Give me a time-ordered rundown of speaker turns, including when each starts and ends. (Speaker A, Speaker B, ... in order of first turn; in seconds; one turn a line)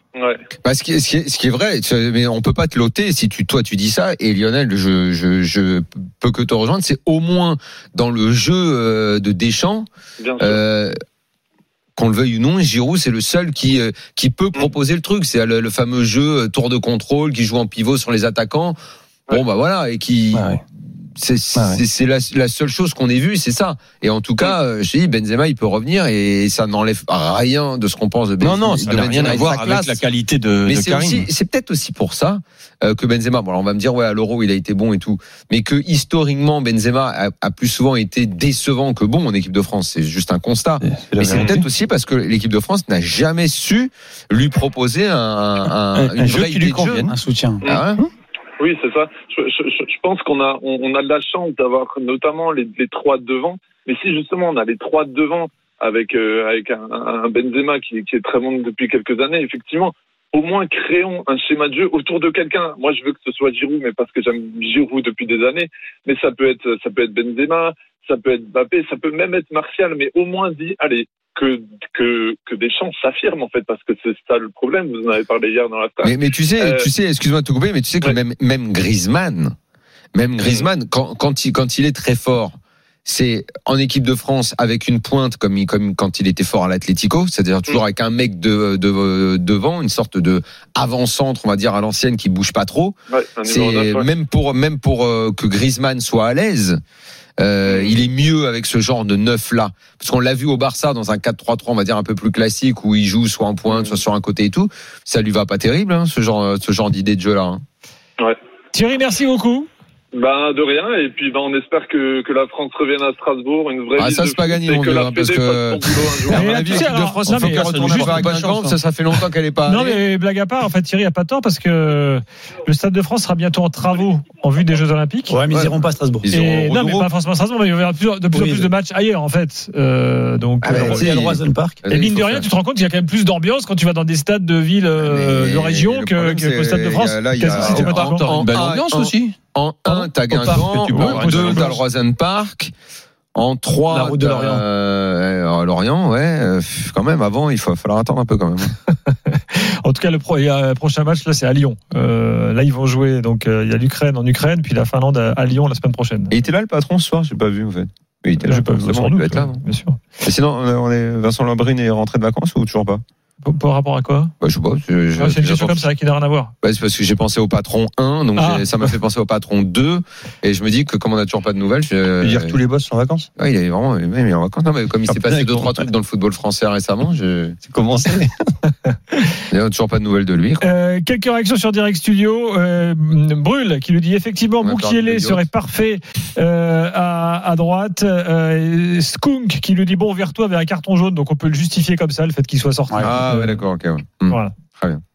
Speaker A: 0.1-0.4
Speaker B: 0.6-9.9
Speaker A: 10.2-10.6
Speaker B: 10.4-10.9
Speaker B: 12.0-18.8
Speaker B: 19.3-20.6
Speaker C: 20.3-20.6
Speaker B: 21.2-30.0
Speaker C: 21.6-21.8
Speaker C: 28.4-31.3
Speaker D: 28.9-29.4
Speaker B: 30.6-47.1
Speaker C: 40.8-41.6
Speaker C: 45.9-47.1
Speaker E: 47.1-47.6
Speaker B: 47.6-48.0
Speaker A: 48.6-76.9
Speaker B: 76.0-79.5
Speaker B: 80.1-96.8
Speaker A: 93.1-94.1
Speaker B: 97.4-107.6
Speaker A: 97.7-98.0
Speaker A: 103.7-104.0
Speaker D: 108.7-109.7
Speaker A: 110.1-116.9
Speaker B: 114.0-120.0
Speaker D: 116.3-118.4
Speaker C: 117.2-118.8
Speaker D: 119.7-125.3
Speaker E: 125.3-126.3
Speaker B: 125.5-127.1
Speaker D: 126.3-131.1
Speaker E: 128.3-128.7
Speaker B: 130.6-132.5
Speaker E: 130.6-131.8
Speaker D: 131.9-138.3
Speaker B: 135.0-142.7
Speaker C: 137.5-139.3
Speaker C: 139.9-141.8
Speaker D: 140.9-141.8
Speaker B: 143.3-148.7
Speaker E: 143.9-144.6
Speaker D: 149.8-156.3
Speaker B: 156.3-159.6
Speaker D: 158.4-160.0
Speaker B: 160.2-163.0
Speaker D: 163.4-164.3
Speaker B: 164.4-165.9
Speaker D: 165.2-166.5
Speaker B: 166.6-172.6
Speaker D: 168.3-168.9
Speaker C: 172.2-173.3
Speaker B: 173.4-177.6
Speaker C: 175.1-175.9
Speaker C: 177.6-178.3
Speaker B: 179.5-180.6
Speaker D: 180.6-193.6
Speaker B: 184.6-185.5
Speaker B: 193.0-195.0
Speaker D: 194.3-194.5